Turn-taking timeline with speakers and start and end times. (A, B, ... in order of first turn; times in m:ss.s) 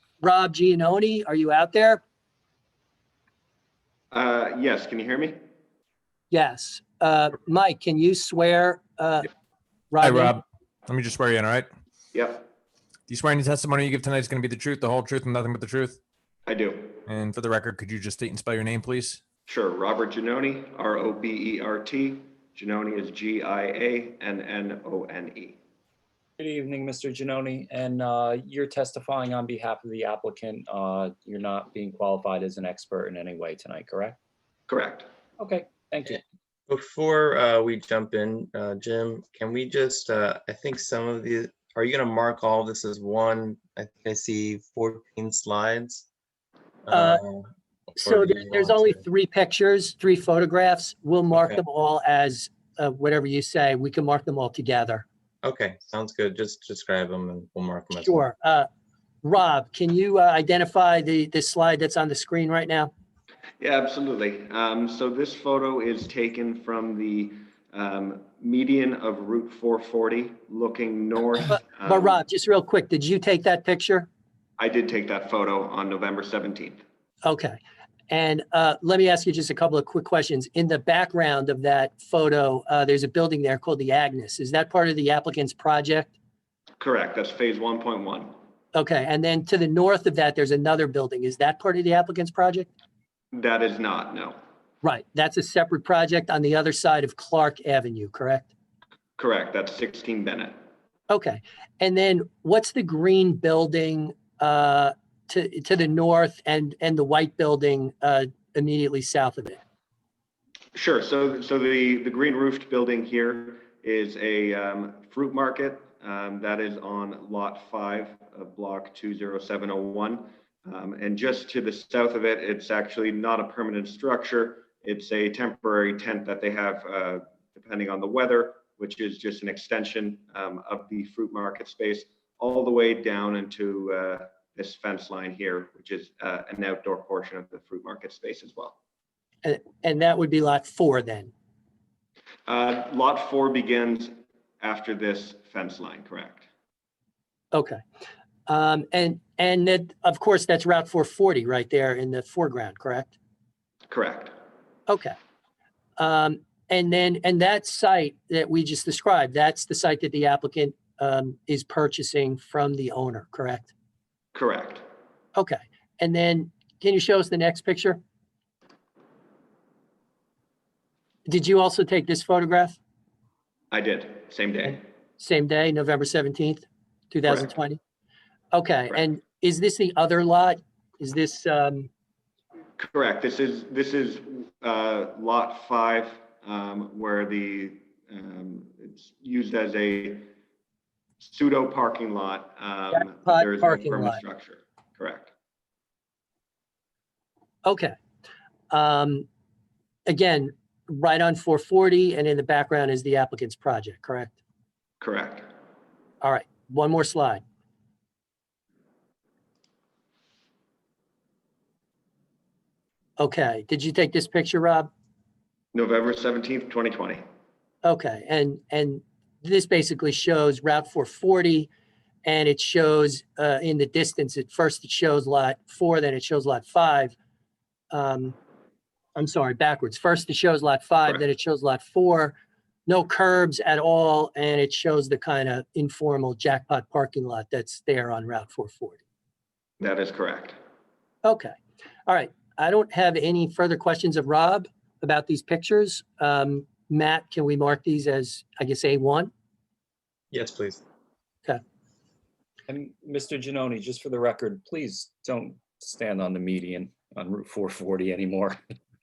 0:00.2-0:02.0 A
0:04.1-0:05.4 B
0:06.3-0:09.3 A
0:09.9-0:10.4 A
0:10.0-0:11.7 C
0:12.1-0:12.5 B
0:13.1-0:16.0 C
0:16.5-0:17.0 B
0:17.0-0:19.2 C
0:19.4-0:25.6 B
0:26.4-0:34.2 D
0:34.7-0:35.1 B
0:35.4-0:36.2 D
0:36.7-0:46.1 E
0:46.8-0:49.0 E
0:46.9-0:47.2 A
0:48.0-0:55.0 A
0:51.3-0:51.6 E
0:55.4-0:58.2 E
0:58.0-0:58.7 A
0:59.2-1:02.9 A
1:03.6-1:12.2 B
1:11.8-1:14.1 A
1:14.6-1:16.8 B
1:17.2-1:17.6 A
1:18.1-1:26.1 A
1:26.8-1:28.3 B
1:28.7-1:32.7 A
1:33.3-1:34.4 B
1:34.8-1:38.5 A
1:39.2-1:40.5 B
1:41.1-1:49.6 A
1:50.7-2:18.8 B
2:19.4-2:21.3 A
2:22.5-2:26.4 B
2:27.5-2:27.8 A
2:28.5-2:33.1 A
2:33.9-2:34.3 B
2:34.9-2:35.1 A
2:36.0-2:43.7 A
2:44.3-2:44.8 B
2:45.4-2:48.0 A
2:51.2-2:52.8 A
2:53.7-2:54.8 B
2:55.2-2:57.8 A
2:58.5-3:01.9 A
3:02.8-3:10.3 B
3:11.2-3:15.3 B
3:12.9-3:14.2 A
3:17.6-3:17.9 A
3:18.7-3:19.2 A
3:20.1-3:24.4 A
3:25.0-3:25.5 B
3:26.2-3:27.4 A
3:33.2-3:34.9 A
3:35.7-3:37.2 B
3:37.8-3:41.7 A
3:42.2-3:47.1 A
3:47.9-3:48.4 A
3:49.2-3:52.4 A
3:52.9-3:59.0 A
3:59.8-4:00.6 B
4:01.2-4:01.5 A
4:02.0-4:09.3 A
4:10.3-4:10.8 E
4:12.7-4:18.6 D